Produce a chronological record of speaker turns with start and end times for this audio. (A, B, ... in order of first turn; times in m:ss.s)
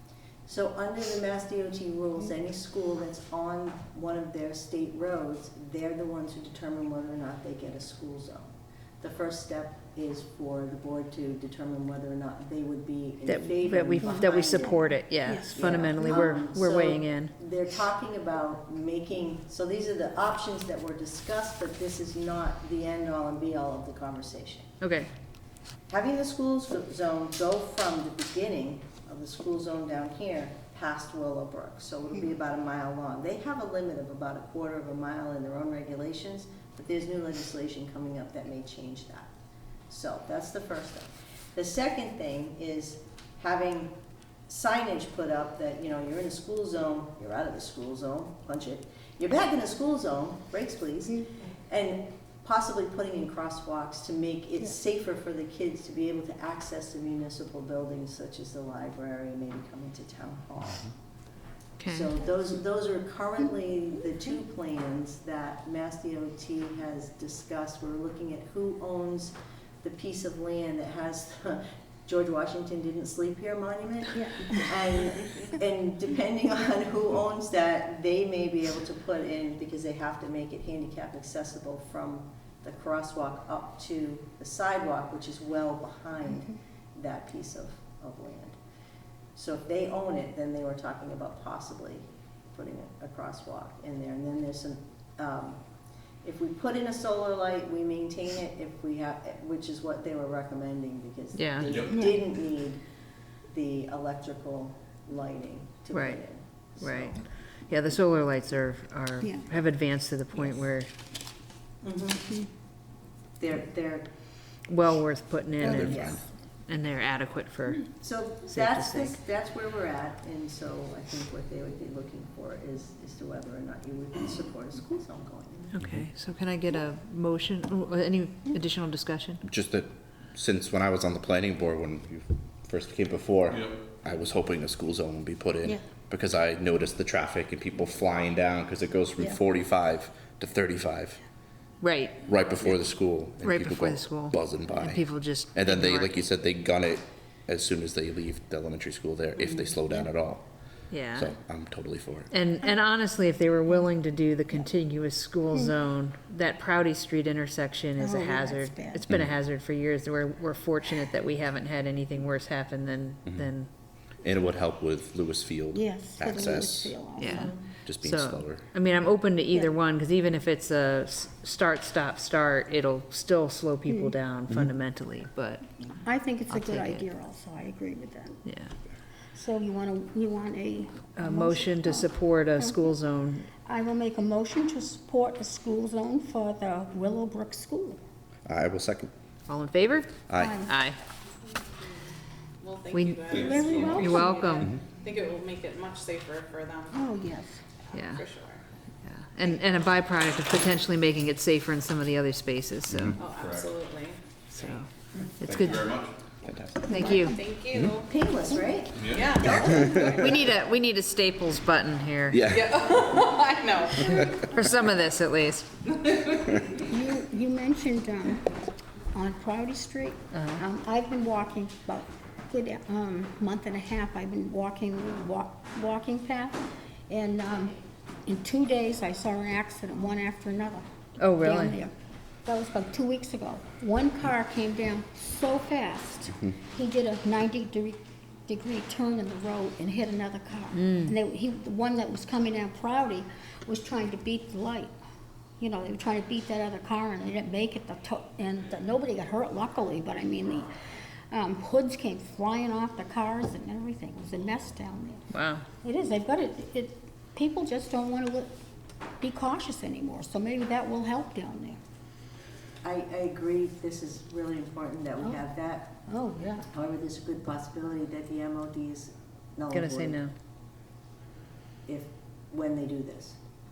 0:00.5-0:08.5 A
0:09.0-0:14.8 A
0:13.2-0:17.3 B
0:14.0-0:16.2 C
0:15.4-0:24.7 A
0:24.8-0:25.1 B
0:25.9-0:39.3 A
0:39.9-0:43.9 A
0:44.5-1:00.9 A
1:01.8-1:02.1 B
1:01.8-1:28.5 A
1:29.4-1:35.6 A
1:36.2-1:42.8 A
1:41.3-1:41.7 B
1:41.6-1:42.0 D
1:41.9-1:42.2 C
1:43.5-1:47.2 A
1:45.9-1:46.2 B
1:46.8-1:50.9 B
1:51.8-1:52.2 A
1:53.4-1:54.1 A
1:54.7-1:57.9 B
1:55.6-1:56.2 E
1:55.7-1:56.2 A
1:58.0-2:05.7 A
1:58.4-1:59.2 B
2:05.7-2:09.4 B
2:09.4-2:21.2 E
2:13.5-2:13.8 D
2:21.8-2:22.8 B
2:22.3-2:30.4 E
2:23.4-2:26.1 B
2:30.9-2:31.3 B
2:31.1-2:32.3 E
2:32.3-2:43.7 B
2:38.0-2:39.0 C
2:44.2-2:47.0 E
2:45.7-2:47.6 C
2:47.2-2:55.8 B
2:47.2-2:47.5 A
2:47.8-2:48.6 E
2:53.9-2:54.1 C
2:56.0-2:58.4 C
2:56.5-2:57.0 B
2:58.4-2:58.7 B
2:59.4-3:03.0 C
3:01.2-3:03.5 B
3:03.6-3:08.0 C
3:08.4-3:09.1 E
3:09.5-3:11.0 B
3:10.3-3:10.6 E
3:10.3-3:10.7 C
3:12.6-3:16.9 F
3:12.9-3:13.3 B
3:13.3-3:14.1 D
3:13.3-3:14.7 C
3:13.9-3:14.7 B
3:16.9-3:17.6 C
3:17.9-3:18.2 B
3:17.9-3:18.6 F
3:19.0-3:23.2 B
3:22.9-3:23.2 E
3:23.2-3:24.8 F
3:23.2-3:23.8 D
3:24.6-3:24.8 B
3:25.4-3:25.9 B
3:25.4-3:26.2 D
3:26.4-3:26.7 E
3:26.9-3:27.4 B
3:26.9-3:27.4 C
3:27.0-3:28.1 F
3:27.9-3:30.3 A
3:29.0-3:29.7 D
3:29.1-3:30.0 F
3:30.0-3:32.5 B
3:32.3-3:32.9 E
3:32.4-3:34.4 F
3:34.4-3:35.8 B
3:36.8-3:38.4 C
3:39.1-3:47.7 C
3:40.3-3:40.6 B
3:48.2-3:51.9 C
3:51.2-3:51.8 B
3:52.4-4:05.0 C
4:00.7-4:01.1 B
4:05.6-4:10.7 C
4:11.3-4:15.2 C
4:15.3-4:15.6 B
4:15.8-4:18.5 C
4:19.2-4:21.8 C
4:22.8-4:26.0 A
4:26.1-4:26.6 C
4:26.7-4:30.2 A
4:29.7-4:30.3 B
4:31.8-4:33.4 A